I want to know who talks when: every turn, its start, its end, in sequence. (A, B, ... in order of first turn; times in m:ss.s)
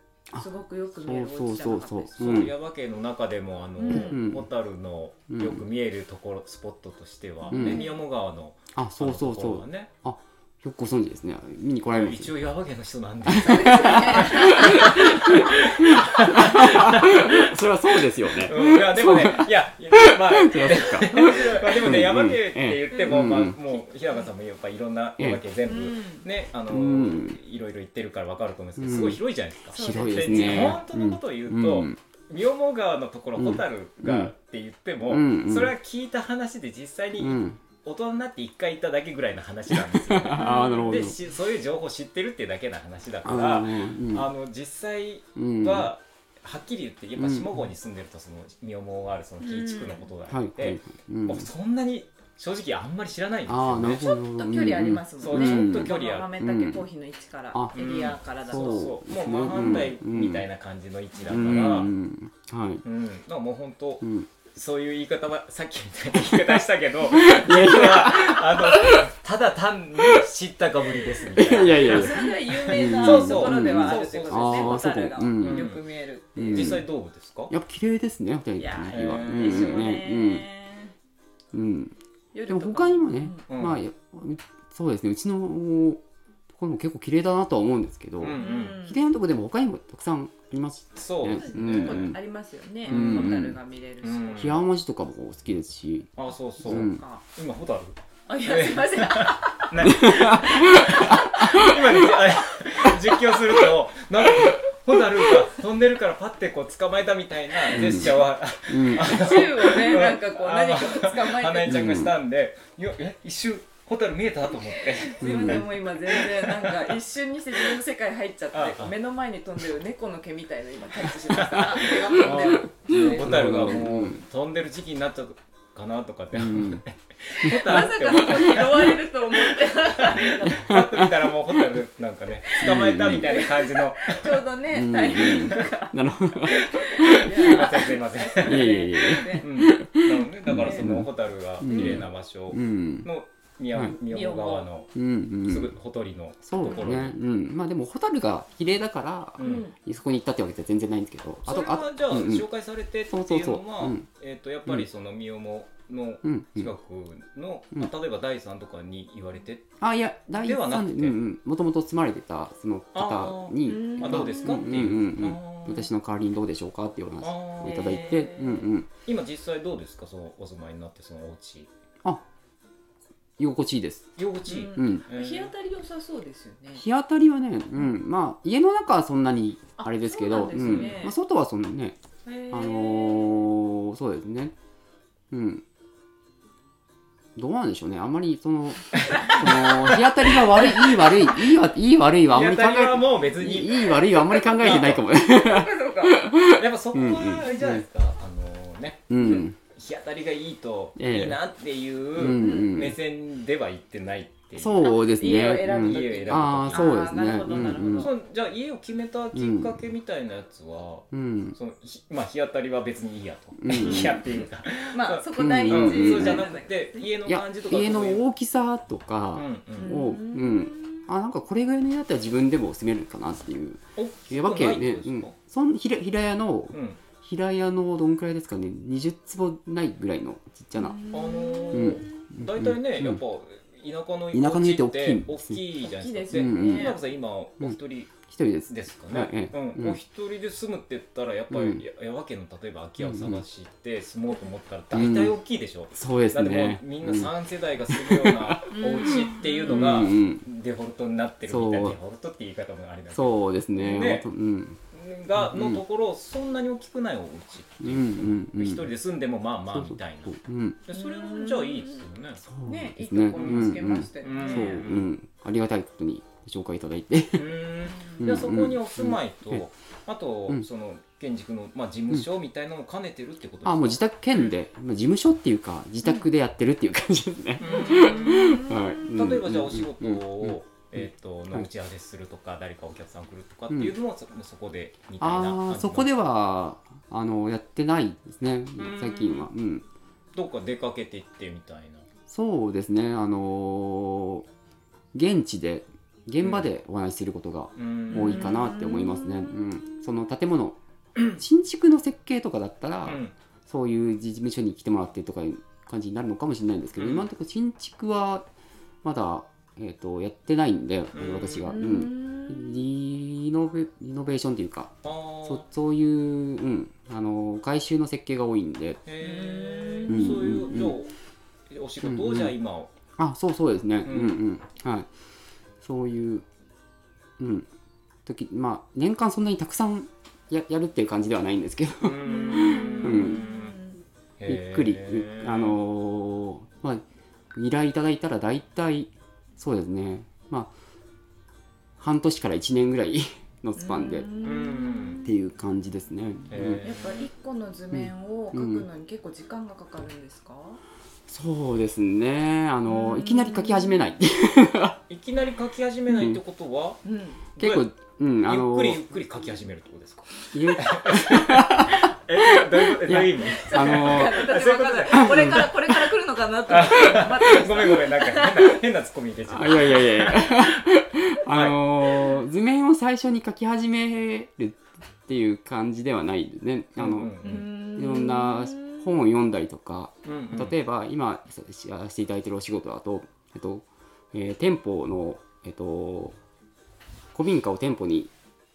0:00.3-0:02.5 A
0:00.4-0:02.5 B
0:02.2-0:09.9 C
0:03.8-0:04.2 B
0:03.9-0:04.5 A
0:05.3-0:05.6 A
0:07.4-0:08.0 B
0:07.5-0:07.9 A
0:08.7-0:12.3 A
0:11.9-0:17.6 C
0:13.2-0:23.6 A
0:13.4-0:15.2 B
0:18.4-0:54.2 C
0:21.1-0:22.0 B
0:22.9-0:24.3 B
0:25.6-0:26.2 B
0:26.7-0:27.4 A
0:28.8-0:29.2 A
0:29.7-0:30.8 B
0:29.7-0:32.0 A
0:33.4-0:34.3 A
0:35.1-0:35.7 A
0:37.2-0:37.6 A
0:39.7-0:41.2 A
0:40.4-0:41.0 B
0:43.2-0:44.3 A
0:45.4-0:45.9 A
0:47.2-0:47.7 A
0:49.4-0:50.0 B
0:50.3-0:51.5 A
0:53.5-0:56.8 A
0:54.0-0:58.9 B
0:55.2-0:56.3 C
0:57.5-0:57.9 A
0:57.7-1:01.9 C
0:58.4-1:00.4 A
1:01.2-1:02.8 A
1:02.8-1:14.8 C
1:04.0-1:04.3 A
1:06.1-1:09.1 A
1:10.0-1:10.2 A
1:11.0-1:15.7 A
1:11.6-1:16.7 B
1:15.4-1:15.8 C
1:16.4-1:16.9 A
1:16.4-1:17.5 C
1:17.5-1:20.5 A
1:18.6-1:20.9 B
1:18.9-1:19.9 C
1:21.5-1:22.0 A
1:22.3-1:23.4 B
1:22.5-1:32.2 A
1:23.5-1:23.8 C
1:28.2-1:28.8 C
1:28.3-1:29.0 B
1:31.0-1:32.1 C
1:31.2-1:34.6 B
1:32.8-1:33.4 C
1:32.9-1:33.6 A
1:34.0-1:34.7 C
1:34.4-1:36.1 A
1:36.2-1:56.9 C
1:36.6-1:37.2 B
1:36.6-1:37.0 A
1:38.3-1:42.1 B
1:39.8-1:41.8 A
1:44.2-1:44.6 A
1:47.7-1:49.5 A
1:48.9-1:52.0 B
1:51.6-1:52.1 A
1:55.0-2:03.8 B
1:55.2-1:55.7 A
1:58.5-1:58.9 C
2:01.3-2:09.0 C
2:01.5-2:04.2 A
2:06.3-2:06.8 A
2:07.3-2:10.8 B
2:07.4-2:08.6 A
2:09.7-2:14.4 C
2:10.1-2:11.8 A
2:12.6-2:13.5 A
2:13.1-2:15.9 B
2:14.7-2:17.9 A
2:15.1-2:15.7 C
2:16.5-2:19.5 B
2:16.5-2:18.8 C
2:18.4-2:23.1 A
2:19.4-2:24.9 C
2:20.5-2:20.9 B
2:21.6-2:22.0 B
2:23.8-2:24.7 B
2:24.9-2:25.7 A
2:25.4-2:27.1 C
2:26.4-2:32.5 A
2:26.6-2:26.9 B
2:29.4-2:29.7 B
2:29.4-2:29.7 C
2:31.4-2:39.7 C
2:33.1-2:34.0 A
2:36.2-2:36.7 A
2:39.8-2:48.9 A
2:40.3-2:41.2 C
2:42.9-2:45.9 C
2:43.6-2:44.6 B
2:47.2-2:48.4 C
2:47.6-2:48.7 B
2:49.0-2:51.7 C
2:53.4-2:54.1 A
2:54.2-2:55.5 C
2:54.5-2:56.8 B
2:54.7-2:55.0 A
2:56.8-3:02.0 A
2:59.8-3:01.1 B
3:00.6-3:01.0 C
3:02.2-3:03.5 B
3:02.5-3:04.5 A
3:05.3-3:05.6 A
3:07.4-3:17.8 A
3:09.0-3:11.1 C
3:10.6-3:11.0 B
3:12.3-3:15.0 C
3:14.3-3:16.3 B
3:16.4-3:24.9 C
3:19.1-3:19.6 A
3:21.0-3:21.4 A
3:22.1-3:23.0 A
3:22.3-3:22.8 B
3:24.6-3:28.1 A
3:24.8-3:28.1 B
3:25.5-3:27.1 C
3:27.9-3:38.2 C
3:29.3-3:29.8 A
3:31.1-3:31.6 A
3:33.6-3:34.4 A
3:34.9-3:37.1 B
3:35.4-3:36.4 A
3:37.2-3:51.0 A
3:39.3-3:40.0 C
3:39.8-3:41.0 B
3:44.0-3:45.3 C
3:46.7-3:47.0 C
3:50.7-3:52.3 B
3:51.1-4:14.3 C
3:51.7-3:53.2 A
3:54.3-3:55.6 A
3:55.8-3:57.0 B
3:56.3-3:57.0 A
3:57.6-4:00.0 A
4:01.5-4:01.8 A
4:03.0-4:03.4 A
4:04.9-4:05.4 A
4:05.9-4:07.3 A
4:07.9-4:10.4 A
4:08.7-4:10.1 B
4:11.5-4:12.0 A
4:13.1-4:14.8 A
4:14.9-4:22.4 C
4:15.4-4:15.8 A
4:17.8-4:18.9 A
4:19.7-4:20.8 A
4:20.9-4:22.0 B
4:22.4-4:27.5 A
4:22.6-4:24.9 B
4:23.4-4:25.1 C
4:27.4-4:34.5 C
4:27.9-4:28.2 B
4:28.2-4:29.6 A
4:33.6-4:41.7 A
4:37.6-4:46.1 C
4:37.6-4:39.1 B
4:43.7-4:43.9 A
4:45.2-4:49.8 A
4:48.8-4:49.5 C
4:50.3-4:52.0 C
4:52.3-4:54.5 A
4:55.1-5:00.8 A
4:56.4-4:56.7 C
4:57.8-4:58.8 C
4:58.1-4:59.5 B
5:01.3-5:08.4 A
5:03.0-5:03.3 C
5:07.0-5:07.3 C
5:09.0-5:19.0 A
5:11.1-5:11.8 C
5:11.6-5:12.7 B
5:15.0-5:15.6 C
5:19.0-5:21.1 C
5:19.2-5:20.6 B
5:20.1-5:21.0 A
5:21.7-5:22.9 C
5:22.0-5:22.5 A
5:23.2-5:25.1 A
5:24.0-5:24.4 C
5:25.8-5:26.4 A
5:27.4-5:27.7 A
5:28.2-5:33.4 A
5:32.0-5:33.8 C
5:32.2-5:34.0 B
5:34.4-5:35.8 C
5:34.4-5:40.7 A
5:42.0-5:44.3 A
5:43.8-5:45.3 B
5:44.4-5:45.2 C
5:45.2-5:46.8 A
5:46.5-5:47.3 C
5:46.8-5:50.8 B
5:47.9-5:48.9 A
5:51.3-5:55.0 A
5:52.8-5:54.0 B
5:55.1-5:57.0 C
5:56.1-5:56.4 A
5:57.0-5:57.4 B
5:57.6-5:57.9 C
5:57.6-5:59.0 A
5:58.4-6:05.7 C
6:00.5-6:04.6 A
6:03.6-6:08.8 B
6:05.1-6:05.8 A
6:06.7-6:10.8 C
6:09.5-6:26.4 A
6:11.5-6:11.8 C
6:17.0-6:17.7 C
6:17.4-6:19.1 B
6:20.2-6:20.8 C
6:27.3-6:28.3 A